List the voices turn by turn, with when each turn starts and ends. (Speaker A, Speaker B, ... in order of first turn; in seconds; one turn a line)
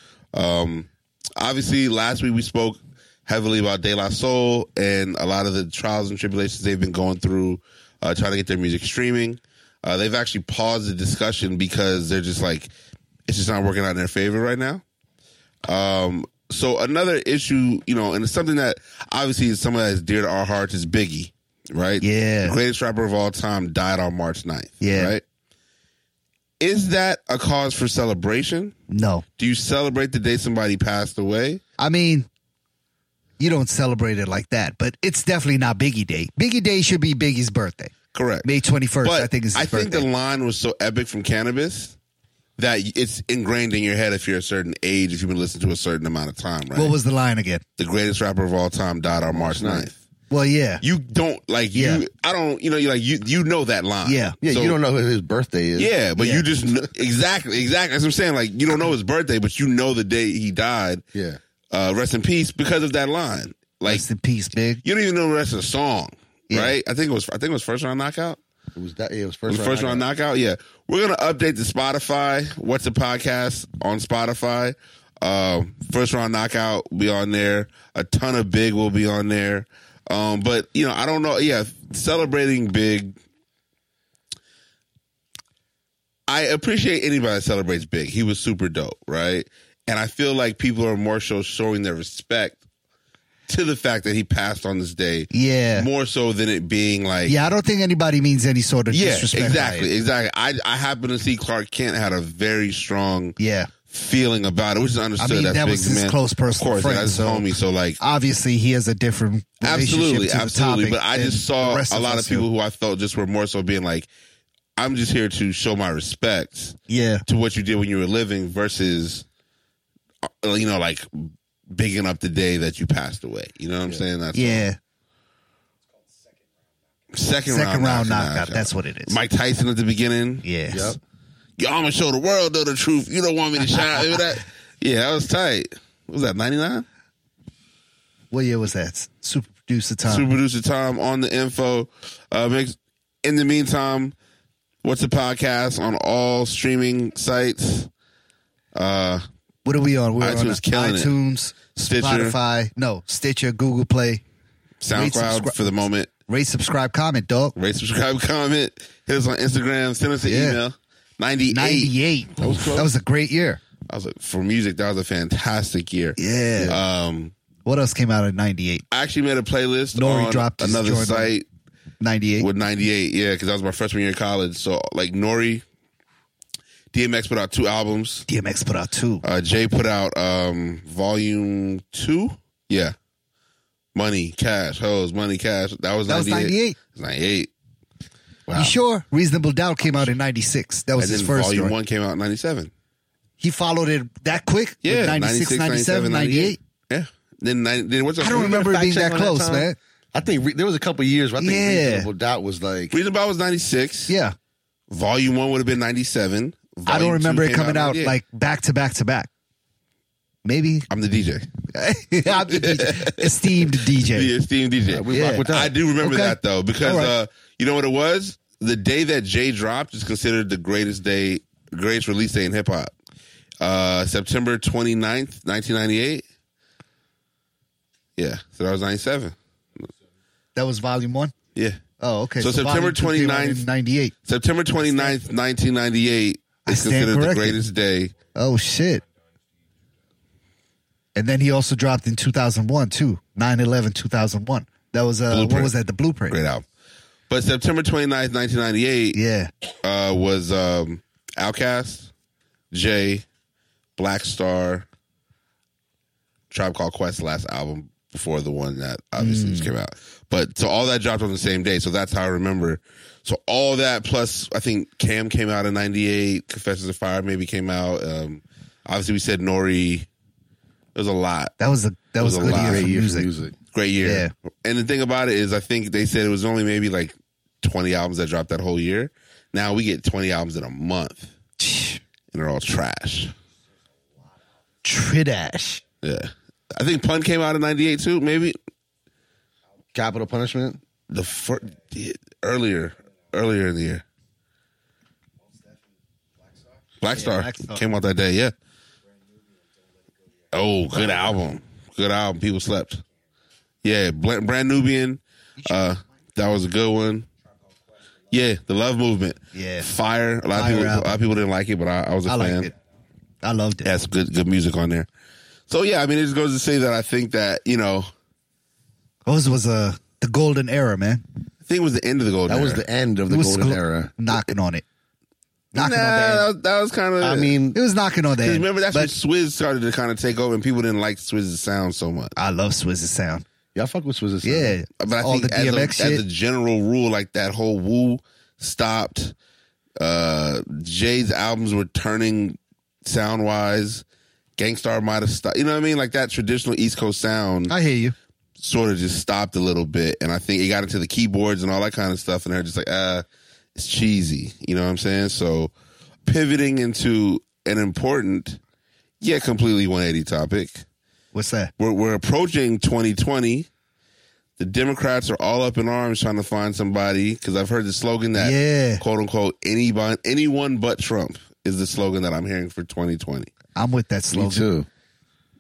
Speaker A: 0.3-12.7
Speaker A: 13.3-14.8
Speaker A: 15.7-25.2
Speaker B: 22.0-22.6
Speaker B: 24.8-25.1
Speaker A: 26.6-28.8
Speaker B: 28.9-29.2
Speaker A: 29.4-31.6
Speaker B: 31.8-32.3
Speaker B: 33.4-37.9
Speaker A: 38.1-38.5
Speaker B: 38.4-40.0
Speaker A: 39.0-42.0
Speaker A: 42.6-47.0
Speaker B: 46.7-47.6
Speaker A: 47.8-50.0
Speaker C: 49.3-49.9
Speaker B: 50.3-50.8
Speaker A: 50.8-54.8
Speaker B: 51.7-52.0
Speaker B: 54.0-54.4
Speaker C: 54.4-55.9
Speaker A: 55.8-61.0
Speaker B: 56.2-56.5
Speaker C: 61.1-61.4
Speaker A: 61.7-64.0
Speaker B: 63.9-64.8
Speaker A: 64.8-68.4
Speaker B: 66.5-66.8
Speaker C: 68.8-70.0
Speaker A: 69.5-83.2
Speaker A: 86.3-92.6
Speaker A: 93.5-97.4
Speaker B: 95.3-95.9
Speaker B: 97.3-99.9
Speaker A: 98.9-108.0
Speaker B: 103.4-103.7
Speaker B: 105.2-112.5
Speaker A: 109.6-114.1
Speaker A: 114.8-119.2
Speaker B: 116.9-117.2
Speaker A: 120.2-124.7
Speaker B: 124.3-124.8
Speaker A: 127.1-130.4
Speaker B: 127.5-129.2
Speaker B: 130.4-131.0
Speaker C: 130.7-131.0
Speaker A: 131.6-136.8
Speaker B: 138.3-140.3
Speaker A: 140.1-144.1
Speaker A: 144.8-147.9
Speaker A: 148.7-149.2
Speaker B: 149.7-154.2
Speaker A: 150.2-151.1
Speaker A: 151.8-152.3
Speaker A: 154.8-156.1
Speaker B: 154.9-155.8
Speaker B: 156.3-157.6
Speaker A: 157.6-162.8
Speaker B: 160.2-160.6
Speaker B: 161.5-163.6
Speaker C: 162.4-162.9
Speaker A: 163.9-167.3
Speaker B: 166.2-166.8
Speaker B: 167.7-168.8
Speaker A: 168.9-171.4
Speaker B: 169.9-171.3
Speaker B: 172.0-172.5
Speaker A: 172.4-175.6
Speaker A: 176.9-178.3
Speaker B: 178.3-179.2
Speaker A: 179.2-182.9
Speaker A: 183.9-187.5
Speaker B: 186.1-186.8
Speaker C: 188.5-188.7
Speaker B: 188.5-191.7
Speaker A: 191.0-192.7
Speaker B: 193.4-196.6
Speaker A: 194.8-198.7
Speaker B: 198.2-199.8
Speaker C: 198.2-202.9
Speaker B: 201.4-202.1
Speaker A: 202.9-204.1
Speaker B: 204.1-204.3
Speaker A: 204.9-208.2
Speaker B: 206.9-209.3
Speaker B: 210.4-210.9
Speaker A: 210.9-211.5
Speaker B: 211.7-214.3
Speaker A: 212.3-222.9
Speaker C: 214.9-215.8
Speaker B: 215.1-217.1
Speaker A: 223.6-226.2
Speaker A: 228.2-229.3
Speaker B: 230.6-231.3
Speaker A: 231.6-231.8
Speaker B: 232.0-234.1
Speaker A: 232.4-233.7
Speaker A: 234.3-238.1
Speaker B: 234.8-235.2
Speaker B: 236.7-237.6
Speaker B: 238.3-239.0
Speaker B: 241.2-246.4
Speaker A: 245.3-245.7
Speaker A: 246.3-246.7
Speaker A: 247.3-249.2
Speaker B: 249.1-249.5
Speaker A: 249.8-252.1
Speaker A: 252.7-253.2
Speaker A: 254.0-254.9
Speaker A: 256.5-270.1
Speaker B: 259.2-259.7
Speaker A: 270.9-271.6
Speaker B: 271.6-273.3
Speaker A: 272.2-272.9
Speaker C: 272.4-273.6
Speaker A: 273.7-281.3
Speaker B: 274.0-274.3
Speaker B: 281.6-282.0
Speaker A: 282.3-283.3
Speaker B: 284.8-285.8
Speaker A: 286.0-288.6
Speaker C: 289.9-290.8
Speaker A: 291.1-294.0
Speaker A: 297.0-298.5
Speaker B: 297.1-297.8
Speaker A: 300.5-303.0
Speaker B: 300.9-301.3
Speaker A: 303.8-307.3
Speaker B: 305.6-305.9
Speaker A: 308.3-312.7
Speaker B: 309.5-309.9
Speaker B: 310.5-311.2
Speaker B: 312.3-312.7
Speaker B: 313.4-313.9
Speaker A: 313.8-315.1
Speaker A: 315.7-318.1
Speaker B: 319.3-321.2
Speaker A: 321.7-322.8
Speaker C: 322.5-324.1
Speaker B: 323.3-324.9
Speaker B: 325.7-326.5
Speaker A: 325.8-327.6
Speaker C: 327.2-327.8
Speaker B: 327.7-329.1
Speaker A: 328.4-332.3
Speaker B: 332.4-333.4
Speaker C: 333.8-334.8
Speaker B: 334.4-336.2
Speaker A: 335.0-339.3
Speaker A: 340.0-344.0
Speaker A: 344.6-347.7
Speaker B: 347.7-348.1
Speaker A: 348.6-353.2
Speaker A: 353.8-355.7
Speaker A: 356.3-358.6
Speaker A: 359.2-360.8
Speaker B: 361.3-361.7
Speaker A: 361.8-363.7
Speaker A: 364.6-373.5
Speaker B: 368.4-369.0
Speaker B: 373.8-374.7
Speaker C: 374.3-374.9